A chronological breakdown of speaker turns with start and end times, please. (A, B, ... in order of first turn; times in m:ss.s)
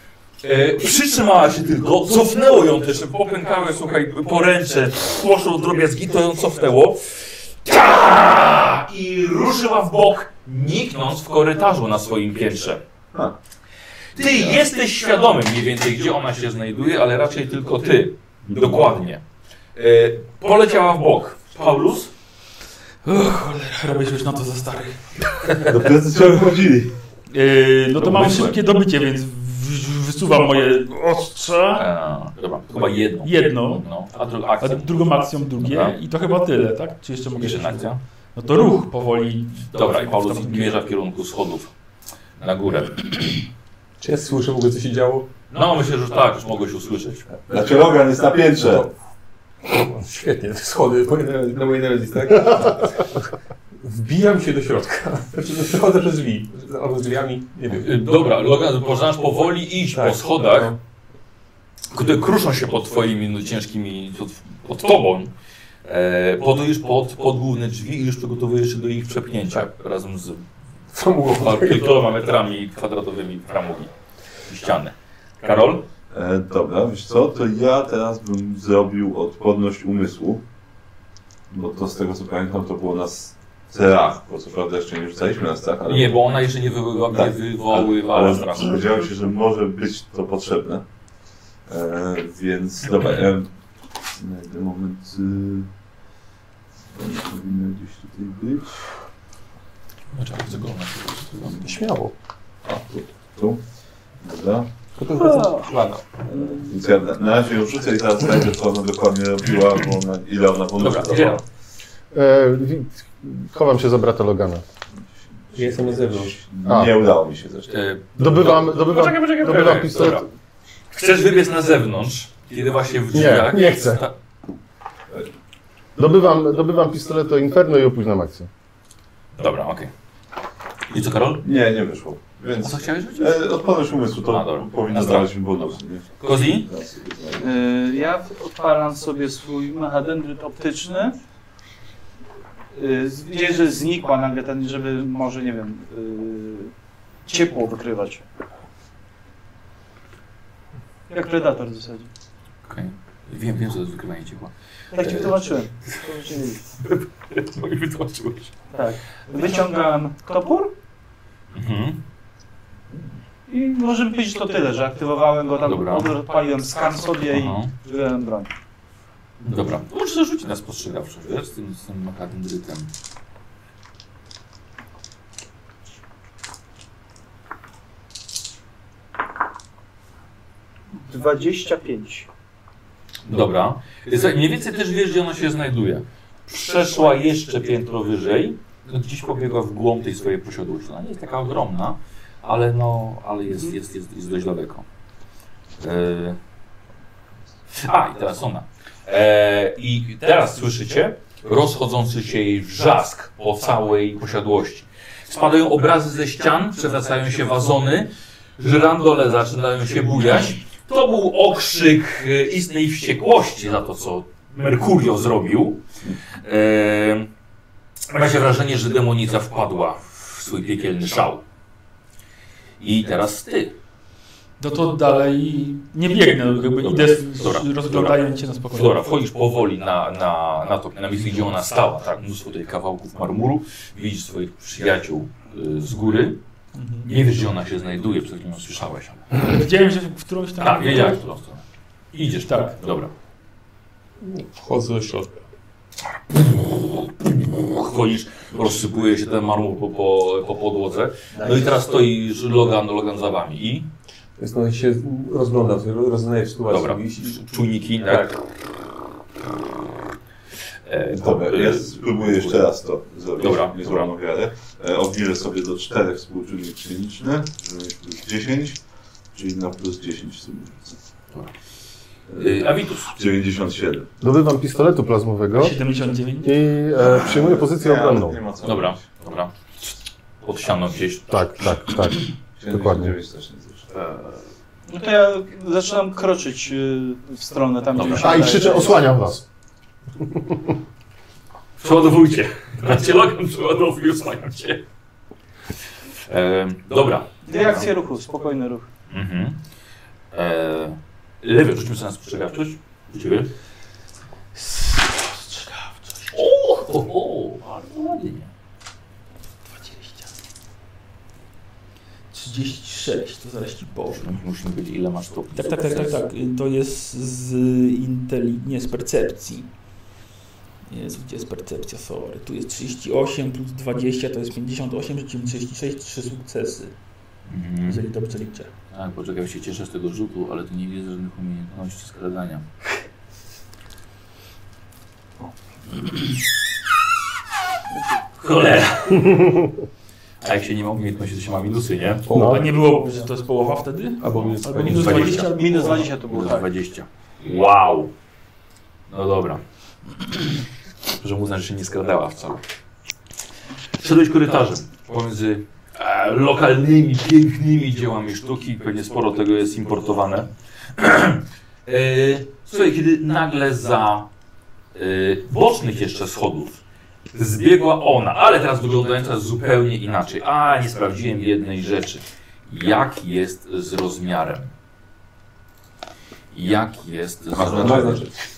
0:00.4-0:12.8 A
0:14.2-0:19.2 A
0:14.2-0:14.6 B
0:18.4-0:18.9 B
0:19.8-0:22.1 A
0:23.0-0:25.5 C
0:25.6-0:27.0 B
0:27.3-0:31.8 C
0:28.0-0:28.6 A
0:31.8-0:36.0 A
0:33.2-0:33.8 C
0:34.6-0:40.9 C
0:37.4-0:38.0 A
0:39.7-0:41.7 A
0:42.4-0:43.2 A
0:44.0-0:45.3 D
0:45.5-0:47.3 A
0:47.5-0:48.9 B
0:48.6-0:48.9 D
0:49.6-0:53.2 D
0:53.8-0:58.0 D
0:57.7-1:00.7 A
0:59.9-1:00.8 D
1:01.9-1:05.3 A
1:05.8-1:10.5 A
1:10.9-1:11.9 D
1:11.3-1:13.9 A
1:14.5-1:15.9 A
1:16.1-1:20.4 B
1:21.5-1:26.2 B
1:25.9-1:29.1 A
1:27.1-1:30.8 B
1:31.7-1:33.5 B
1:34.2-1:35.7 B
1:36.9-1:38.9 B
1:40.1-1:41.6 A
1:41.6-1:42.2 D
1:42.6-1:43.6 B
1:44.2-1:44.7 B
1:45.0-1:46.7 D
1:45.2-1:45.7 E
1:46.3-1:51.4 B
1:50.8-1:51.4 A
1:52.1-1:54.6 F
1:55.6-1:56.4 D
1:55.6-1:57.7 B
1:56.6-1:56.9 F
1:57.7-2:00.3 A
1:58.2-2:00.3 F
2:00.9-2:04.2 A
2:03.1-2:04.0 F
2:06.0-2:08.5 F
2:09.4-2:09.9 A
2:10.9-2:11.4 A
2:11.4-2:17.6 B
2:12.6-2:13.6 A
2:14.3-2:16.7 A
2:17.4-2:21.2 E
2:22.7-2:26.7 E
2:27.3-2:28.2 E
2:31.1-2:32.1 E
2:32.6-2:35.4 A
2:34.9-2:36.6 E
2:36.8-2:38.5 A
2:38.7-2:40.7 E
2:41.5-2:42.0 A
2:43.5-2:48.5 E
2:45.6-2:46.2 A
2:47.3-2:47.7 A
2:49.4-2:52.9 A
3:01.1-3:02.3 E
3:03.3-3:14.8 A
3:15.8-3:16.4 A
3:17.7-3:35.8 A
3:36.4-3:37.3 A
3:38.1-3:41.4 A
3:42.8-3:43.8 A
3:44.6-3:49.1 C
3:46.8-3:56.4 A
3:56.7-3:57.1 C
3:57.0-3:59.4 A
3:59.4-4:01.2 C
4:00.6-4:03.1 A
4:02.5-4:02.7 C
4:04.2-4:05.3 D
4:06.5-4:13.9 A
4:14.4-4:17.4 D
4:16.7-4:18.4 A
4:20.9-4:22.7 A
4:21.1-4:28.8 B
4:23.4-4:24.2 A
4:29.3-4:31.0 B
4:32.3-4:34.1 B
4:32.4-4:33.1 A
4:34.2-4:35.8 F
4:35.6-4:36.6 C
4:36.4-4:38.4 F
4:37.0-4:39.0 B
4:38.6-4:41.5 A
4:41.3-4:43.2 F
4:42.6-4:43.9 B
4:44.0-4:44.3 A
4:44.9-4:49.1 E
4:48.0-4:48.5 A
4:48.1-4:49.4 F
4:51.8-4:54.8 A
4:56.3-4:57.9 A
4:57.4-4:58.9 E
4:59.1-4:59.6 A
5:00.3-5:03.5 A
5:04.6-5:06.4 C
5:06.3-5:08.5 A
5:09.7-5:10.3 C
5:12.3-5:14.3 C
5:14.1-5:16.3 A
5:15.6-5:19.7 C
5:20.9-5:27.0 C
5:27.5-5:28.0 A
5:27.9-5:28.7 C
5:28.9-5:32.7 A
5:38.4-5:39.6 A
5:40.4-5:42.3 A
5:42.3-5:42.7 D
5:42.3-5:42.7 F
5:42.3-5:46.1 C
5:44.2-5:45.8 D
5:44.3-5:48.1 A
5:45.0-5:46.7 E
5:49.1-5:49.6 A
5:51.1-5:52.6 A
5:54.0-6:04.3 A
6:04.9-6:06.8 A
6:07.3-6:14.7 A
6:16.5-6:18.2 A
6:17.6-6:18.3 B
6:17.8-6:18.2 D